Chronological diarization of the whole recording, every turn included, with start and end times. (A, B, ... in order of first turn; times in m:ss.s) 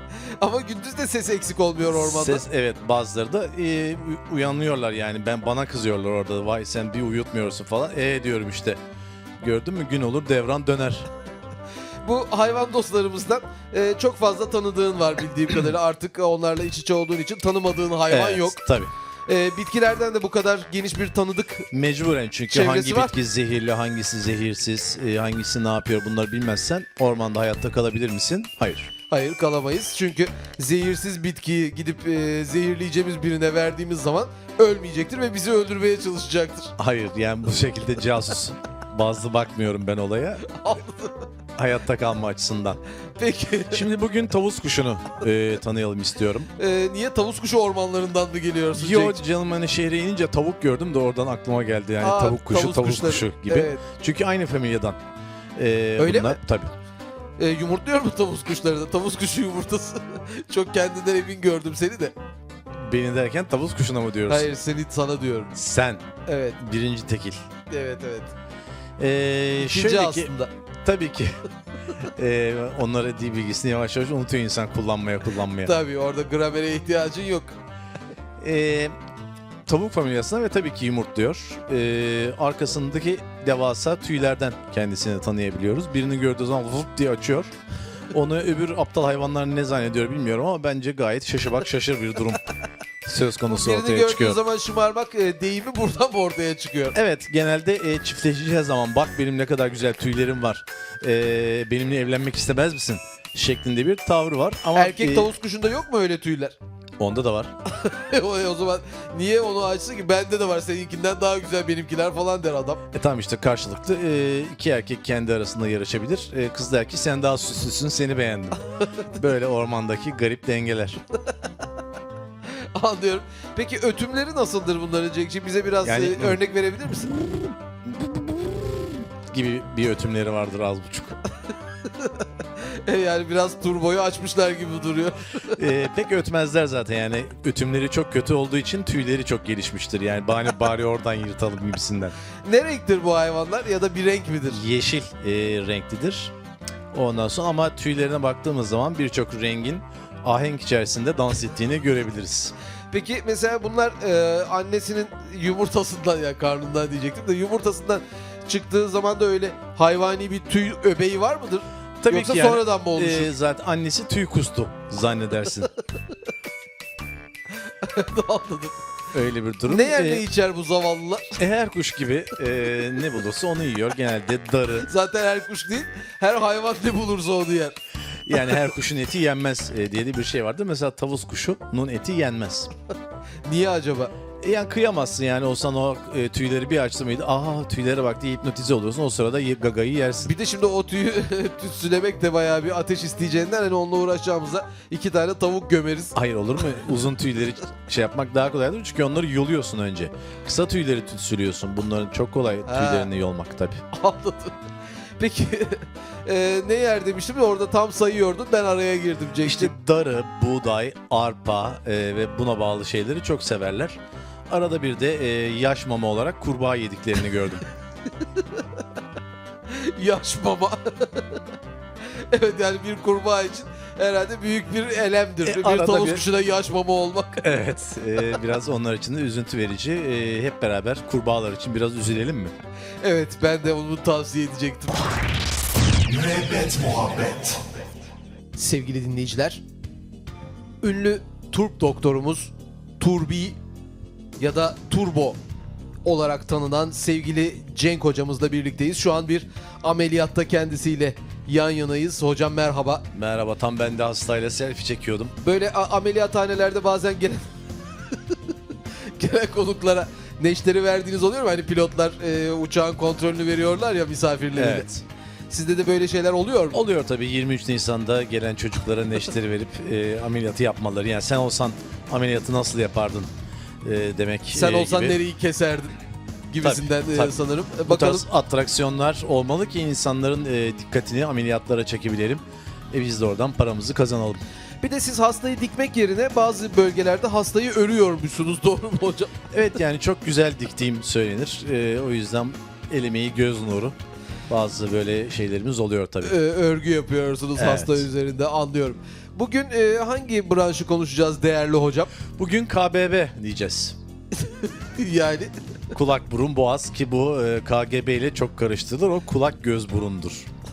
0:00.4-0:02.4 A
0:01.9-0:08.8 B
0:09.4-0:11.1 B
0:12.0-0:18.6 A
0:18.1-0:18.9 B
0:19.3-0:21.7 A
0:21.7-0:28.9 B
0:22.5-0:23.1 A
0:29.1-0:36.7 A
0:36.8-0:40.5 B
0:40.4-0:41.2 A
0:41.6-0:42.8 B
0:43.2-0:43.8 A
0:43.7-0:46.5 B
0:46.6-0:49.2 A
0:48.7-0:55.0 B
0:52.0-0:53.8 A
0:55.6-0:56.7 B
0:56.0-0:56.4 A
0:57.4-1:02.1 A
1:02.8-1:04.5 B
1:04.3-1:05.5 A
1:05.5-1:06.0 B
1:06.2-1:06.6 A
1:06.6-1:07.4 B
1:07.7-1:08.3 A
1:09.0-1:10.3 B
1:09.6-1:10.5 A
1:10.8-1:11.4 B
1:12.0-1:15.7 B
1:15.6-1:17.6 A
1:18.4-1:18.9 B
1:19.6-1:27.5 B
1:28.1-1:32.4 B
1:33.0-1:34.4 B
1:33.5-1:37.0 A
1:36.9-1:45.3 B
1:44.7-1:46.6 A
1:47.0-1:47.5 B
1:47.7-1:52.8 A
1:52.9-1:58.6 B
1:59.1-2:01.0 B
2:02.6-2:07.1 A
2:05.8-2:06.4 B
2:07.9-2:08.7 B
2:09.3-2:11.2 B
2:11.8-2:15.6 A
2:15.5-2:22.2 B
2:22.4-2:24.6 A
2:24.5-2:26.3 B
2:26.9-2:32.5 B
2:32.9-2:43.3 A
2:42.0-2:45.7 B
2:47.8-2:48.8 A
2:49.1-2:50.2 B
2:49.7-2:51.4 A
2:51.4-2:54.9 B
2:54.8-2:57.8 A
2:58.2-3:02.7 B
3:03.4-3:04.1 A
3:04.4-3:10.3 B
3:10.2-3:16.2 A
3:16.1-3:23.8 B
3:22.7-3:23.1 A
3:23.9-3:24.6 A
3:25.2-3:29.7 A
3:29.4-3:37.6 B
3:39.7-3:41.4 A
3:42.1-3:47.5 A
3:45.4-3:46.2 B
3:47.4-3:52.5 B
3:53.0-3:55.1 A
3:56.1-3:57.5 B
3:58.6-3:59.6 A
4:00.8-4:03.6 A
4:04.4-4:05.4 A
4:06.0-4:13.0 A
4:13.1-4:15.3 B
4:15.4-4:17.5 A
4:18.1-4:18.4 A
4:19.1-4:24.9 A
4:24.5-4:25.0 B
4:25.5-4:26.8 A
4:26.7-4:33.3 B
4:33.8-4:35.2 B
4:34.5-4:35.9 A
4:36.5-4:38.2 A
4:36.6-4:44.4 B
4:44.8-4:49.3 A
4:49.5-4:54.0 B
4:54.5-4:56.4 B
4:56.2-5:02.1 A
4:57.6-4:58.1 B
5:02.4-5:04.0 B
5:04.4-5:05.5 A
5:05.9-5:10.5 B